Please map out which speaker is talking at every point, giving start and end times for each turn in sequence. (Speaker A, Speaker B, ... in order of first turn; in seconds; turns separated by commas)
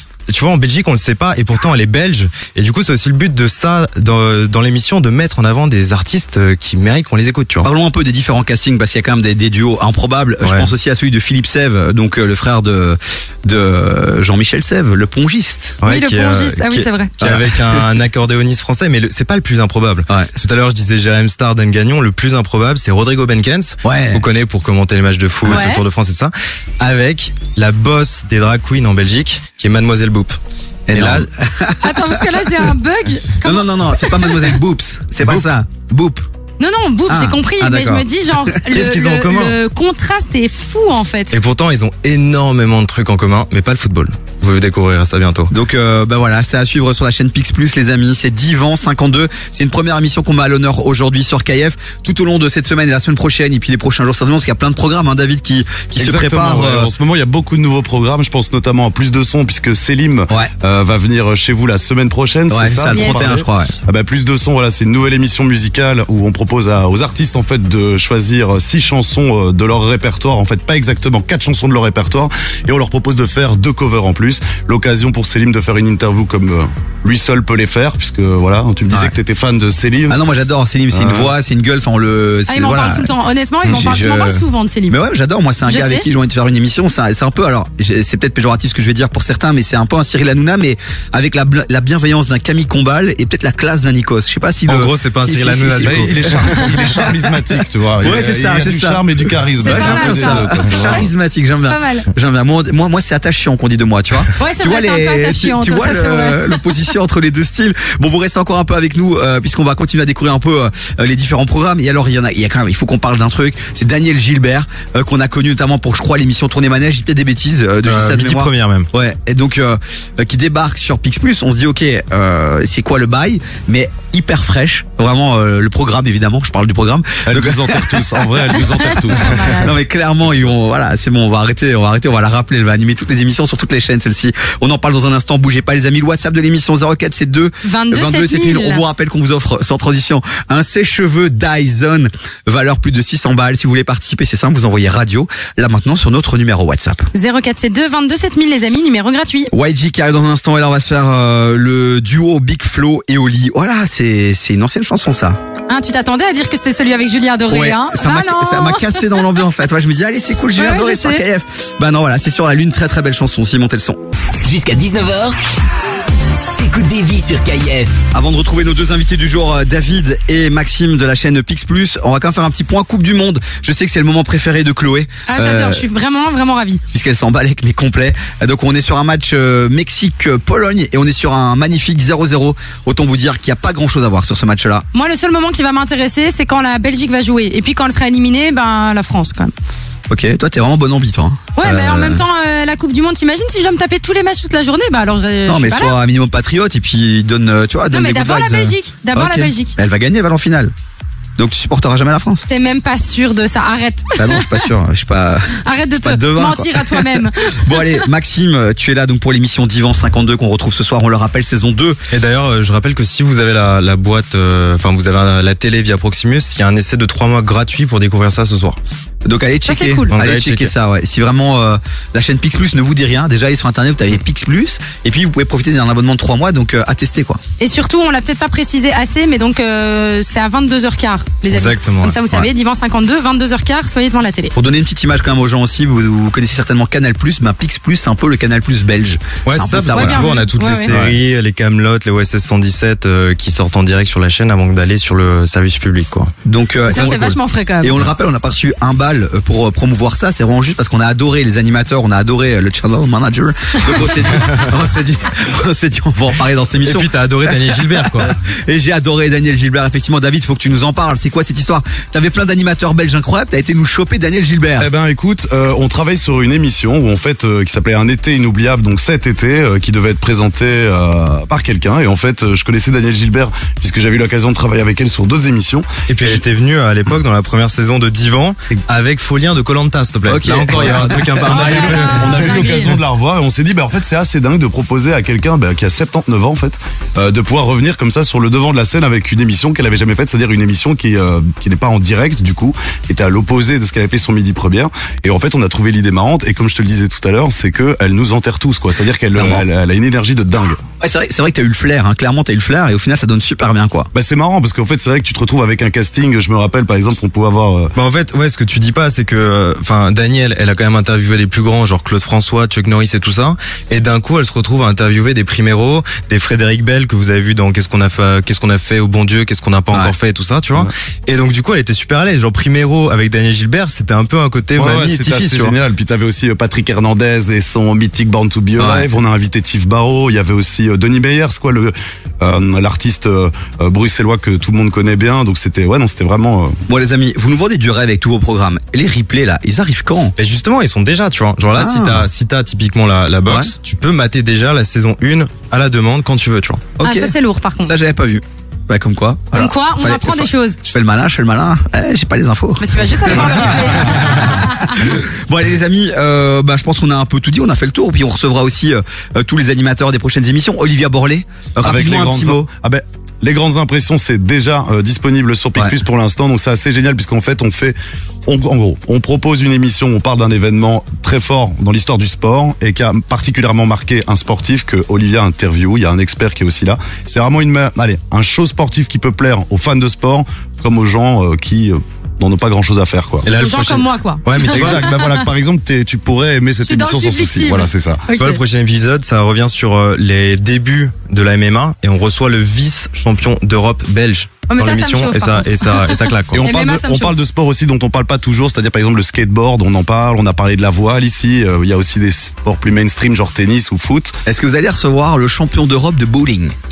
Speaker A: 0.3-7.7, Speaker B: 7.6-15.8, Speaker A: 10.4-10.7, Speaker A: 15.8-30.4, Speaker C: 15.9-17.1, Speaker B: 17.2-17.9, Speaker B: 23.8-24.2, Speaker C: 25.4-25.8, Speaker B: 30.9-32.6, Speaker A: 30.9-31.3, Speaker C: 31.8-34.5, Speaker B: 33.4-36.2, Speaker A: 35.2-35.5, Speaker C: 36.6-41.4, Speaker B: 37.1-38.6, Speaker A: 38.7-39.6, Speaker A: 41.3-45.5, Speaker B: 45.5-56.9, Speaker D: 56.0-80.2, Speaker B: 62.5-63.7, Speaker C: 62.9-63.4, Speaker B: 80.1-83.1, Speaker D: 80.9-81.3, Speaker C: 82.5-85.0, Speaker B: 83.6-97.1, Speaker C: 85.6-86.1, Speaker A: 94.7-96.6, Speaker D: 95.8-101.1, Speaker B: 98.0-99.0, Speaker C: 99.6-101.1, Speaker B: 99.6-128.0, Speaker C: 101.6-102.1, Speaker C: 104.4-106.7, Speaker A: 117.8-118.9, Speaker D: 127.2-130.5, Speaker C: 128.5-129.8, Speaker B: 129.1-147.1, Speaker C: 137.6-138.8, Speaker C: 147.1-149.5, Speaker B: 149.5-155.4, Speaker C: 155.7-159.2, Speaker B: 157.5-164.0, Speaker C: 160.6-161.2, Speaker E: 164.4-165.4, Speaker E: 166.6-168.0, Speaker B: 168.1-175.9, Speaker C: 175.3-176.8, Speaker B: 176.9-184.8, Speaker C: 184.9-189.5, Speaker B: 190.1-192.2, Speaker C: 191.6-196.0, Speaker B: 195.5-200.7, Speaker C: 197.9-199.8, Speaker B: 201.4-202.5, Speaker C: 202.5-204.5, Speaker B: 204.2-212.0, Speaker C: 205.6-208.1, Speaker A: 212.1-218.8, Speaker B: 219.2-227.4, Speaker C: 219.7-220.1, Speaker A: 220.1-220.7, Speaker C: 227.6-234.5, Speaker A: 231.5-232.5, Speaker B: 234.6-240.3, Speaker A: 239.5-246.3, Speaker C: 239.9-240.9, Speaker B: 246.5-257.1, Speaker C: 246.9-248.0, Speaker A: 246.9-247.4, Speaker A: 256.8-258.4, Speaker B: 257.7-264.9, Speaker D: 264.8-276.4, Speaker A: 276.1-282.6, Speaker B: 280.3-282.0, Speaker C: 281.4-283.0, Speaker D: 282.0-300.8, Speaker B: 299.4-299.6, Speaker B: 301.0-304.1, Speaker D: 304.1-307.9, Speaker A: 307.9-325.8, Speaker D: 324.8-336.7, Speaker B: 328.8-329.1, Speaker B: 336.9-340.3, Speaker A: 340.4-346.8, Speaker B: 341.8-342.2, Speaker B: 347.0-362.7, Speaker C: 347.0-347.9, Speaker C: 349.5-350.8, Speaker C: 352.8-354.9, Speaker D: 361.8-383.4, Speaker A: 383.4-385.1, Speaker C: 383.5-385.5, Speaker D: 384.6-388.2, Speaker C: 386.8-388.6, Speaker A: 388.4-396.7, Speaker C: 394.7-397.4, Speaker D: 396.5-404.4, Speaker B: 404.5-406.8